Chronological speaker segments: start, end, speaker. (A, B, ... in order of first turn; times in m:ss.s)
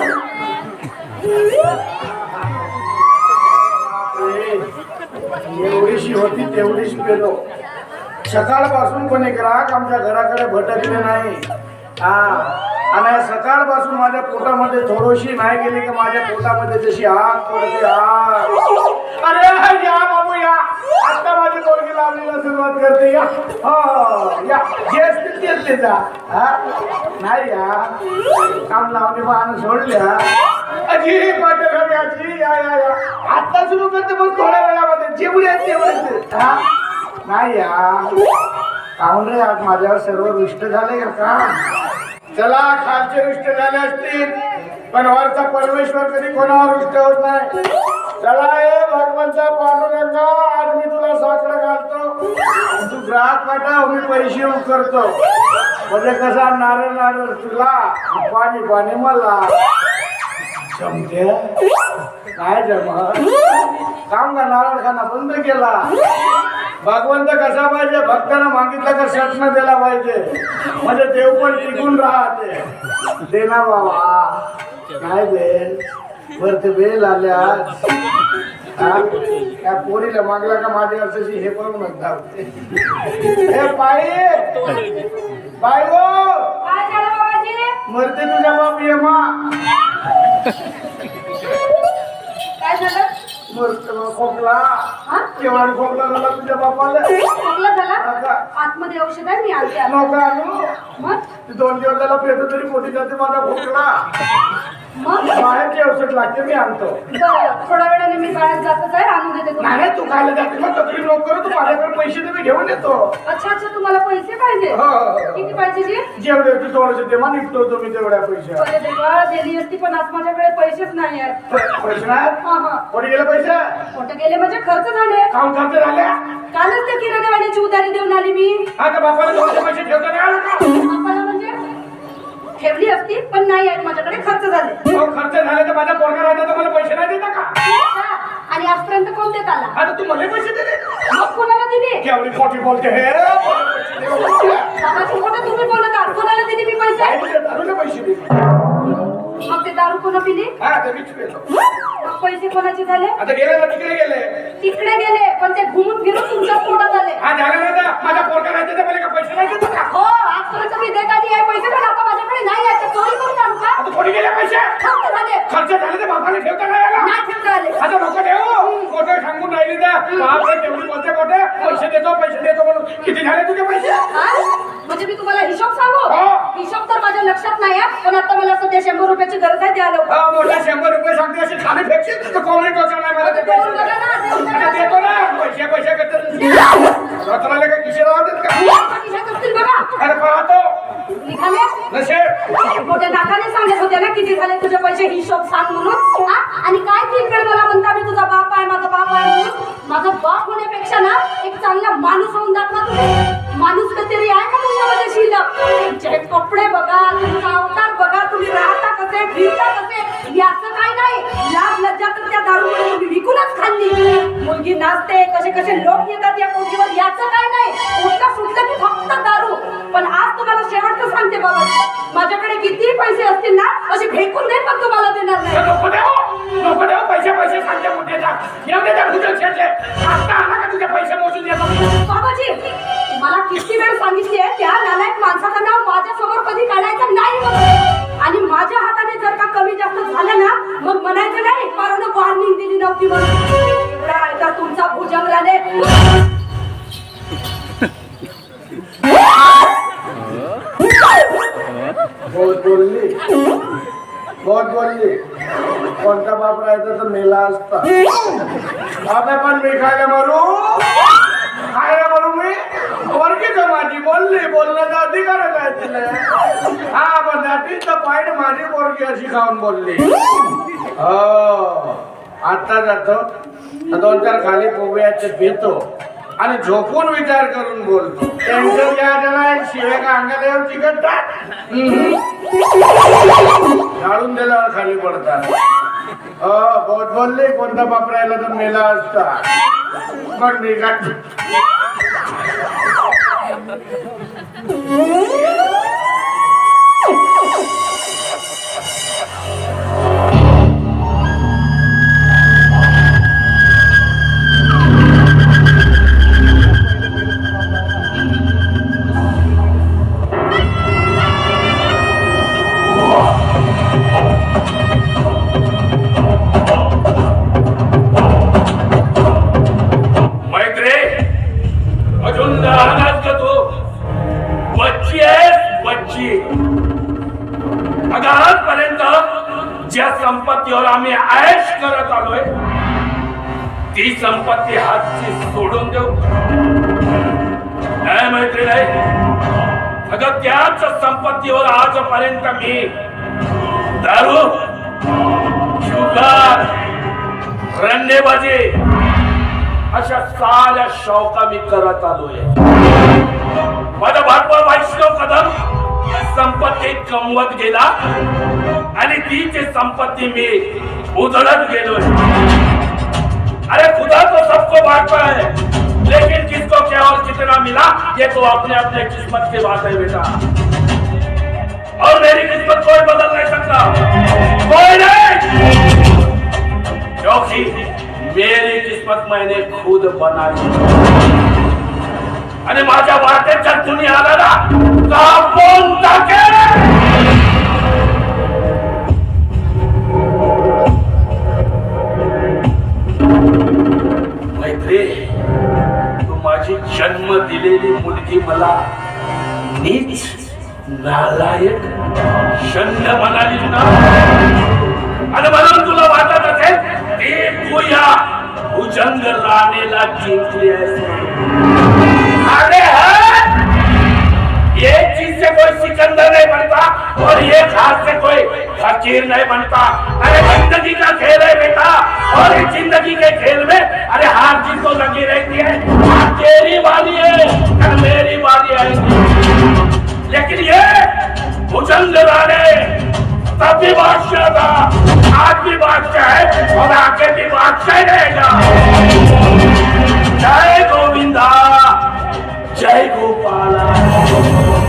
0:03.8-0:04.7 A
0:05.4-0:07.4 A
0:08.3-0:11.4 A
0:12.0-0:18.6 A
0:19.2-0:26.6 A
0:27.2-0:28.0 A
0:28.7-0:30.3 A
0:30.9-0:36.6 A
0:37.2-0:38.2 A
0:39.0-0:41.6 A
0:42.3-0:47.5 A
0:48.2-0:52.1 A
0:52.8-0:55.2 A
0:55.9-0:59.6 A
1:00.7-1:01.6 A
1:02.3-1:03.4 A
1:04.1-1:05.9 A
1:06.8-1:12.7 A
1:13.2-1:14.4 A
1:15.0-1:15.8 A
1:16.3-1:17.8 A
1:18.8-1:22.5 A
1:23.5-1:24.6 A
1:25.6-1:26.6 A
1:26.6-1:27.8 B
1:27.8-1:29.5 A
1:32.6-1:33.1 B
1:33.5-1:37.1 A
1:35.0-1:35.3 B
1:37.4-1:40.1 B
1:38.0-1:38.4 A
1:39.8-1:40.7 A
1:41.0-1:41.2 B
1:41.5-1:44.0 A
1:44.9-1:45.4 B
1:45.2-1:47.0 A
1:47.1-1:49.9 B
1:49.6-1:53.1 A
1:53.2-1:54.8 B
1:54.7-1:55.6 A
1:55.3-1:56.1 B
1:56.2-1:58.7 A
1:58.6-2:01.4 B
2:01.5-2:03.8 A
2:02.4-2:02.8 B
2:03.9-2:05.3 B
2:05.3-2:06.1 A
2:06.5-2:08.7 B
2:08.8-2:10.7 A
2:10.8-2:11.6 B
2:12.6-2:14.8 B
2:14.9-2:17.5 A
2:17.6-2:19.8 B
2:19.8-2:20.8 A
2:21.1-2:22.1 B
2:22.0-2:24.7 A
2:24.7-2:27.2 B
2:27.0-2:28.4 A
2:28.9-2:30.5 B
2:30.6-2:31.5 A
2:32.0-2:33.2 B
2:33.2-2:34.5 A
2:34.6-2:37.2 B
2:37.2-2:39.9 A
2:39.9-2:43.8 B
2:43.8-2:44.8 A
2:44.8-2:45.5 B
2:45.5-2:47.1 A
2:47.0-2:47.8 B
2:47.8-2:54.1 A
2:54.1-3:00.2 B
2:56.1-2:56.5 A
3:00.1-3:03.9 A
3:03.2-3:05.2 B
3:04.5-3:08.7 A
3:08.5-3:10.0 B
3:10.0-3:10.7 A
3:11.2-3:11.8 B
3:11.9-3:12.4 A
3:12.6-3:45.7 B
3:45.5-3:51.9 A
3:52.0-4:05.9 B
4:12.3-4:13.2 A
4:14.4-4:15.2 A
4:16.0-4:17.9 A
4:19.0-4:21.0 A
4:21.7-4:26.3 A
4:26.9-4:30.1 A
4:31.0-4:33.2 A
4:33.9-4:35.8 A
4:36.4-4:42.2 A
4:44.0-4:45.5 A
4:46.4-4:49.4 A
4:50.3-4:51.1 A
5:20.4-5:21.4 C
5:22.2-5:23.8 C
5:24.7-5:26.5 C
5:28.1-5:32.5 C
5:33.9-5:36.3 C
5:38.0-5:39.1 C
5:40.1-5:43.0 C
5:44.0-5:44.8 C
5:45.8-5:46.8 C
5:47.7-5:48.8 C
5:49.9-5:52.5 C
5:54.0-5:57.9 C
5:59.0-6:02.2 C
6:03.7-6:10.4 C
6:12.0-6:15.8 C
6:17.2-6:21.0 C
6:22.6-6:27.1 C
6:34.5-6:35.4 C
6:36.2-6:38.8 C
6:39.6-6:42.0 C
6:42.5-6:44.2 C
6:45.3-6:51.5 C
6:52.4-6:53.7 C
6:54.8-7:09.3 C
7:10.3-7:18.8 C
7:20.3-7:22.2 C
7:22.7-7:24.4 C